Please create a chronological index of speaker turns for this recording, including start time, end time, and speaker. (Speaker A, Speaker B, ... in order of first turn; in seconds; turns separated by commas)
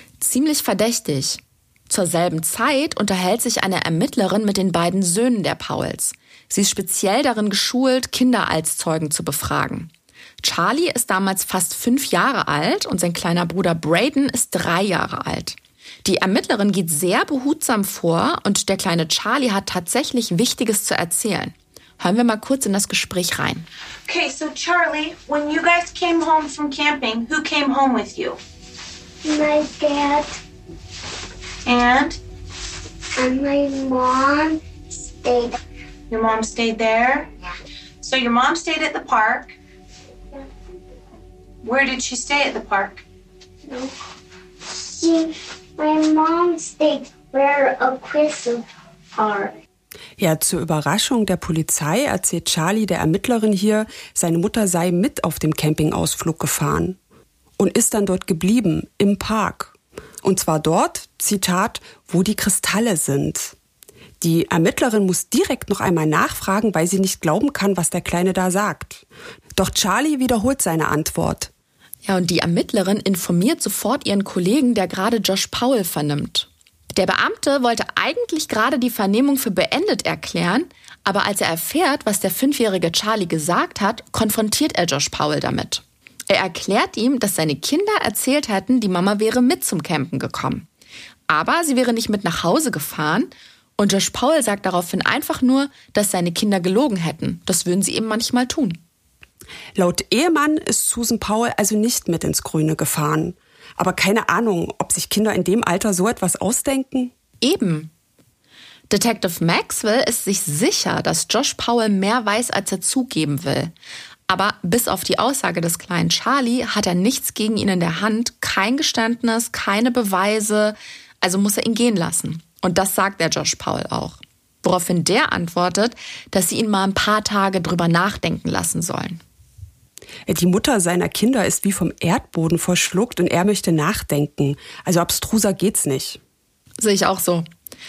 Speaker A: 0.2-9.9, Speaker A: 10.4-23.7, Speaker B: 24.1-28.4, Speaker C: 29.2-30.4, Speaker B: 31.7-32.2, Speaker C: 33.2-35.5, Speaker B: 36.1-37.3, Speaker B: 38.0-39.6, Speaker B: 41.6-43.0, Speaker C: 43.7-43.9, Speaker C: 44.7-48.6, Speaker C: 49.2-49.5, Speaker D: 50.2-57.0, Speaker D: 57.6-63.5, Speaker D: 64.2-69.0, Speaker D: 69.5-71.5, Speaker A: 72.0-90.7, Speaker A: 91.3-98.8, Speaker D: 99.8-107.1, Speaker A: 107.4-107.9, Speaker A: 108.9-113.7, Speaker A: 114.3-129.2, Speaker D: 130.3-136.2, Speaker A: 136.8-137.5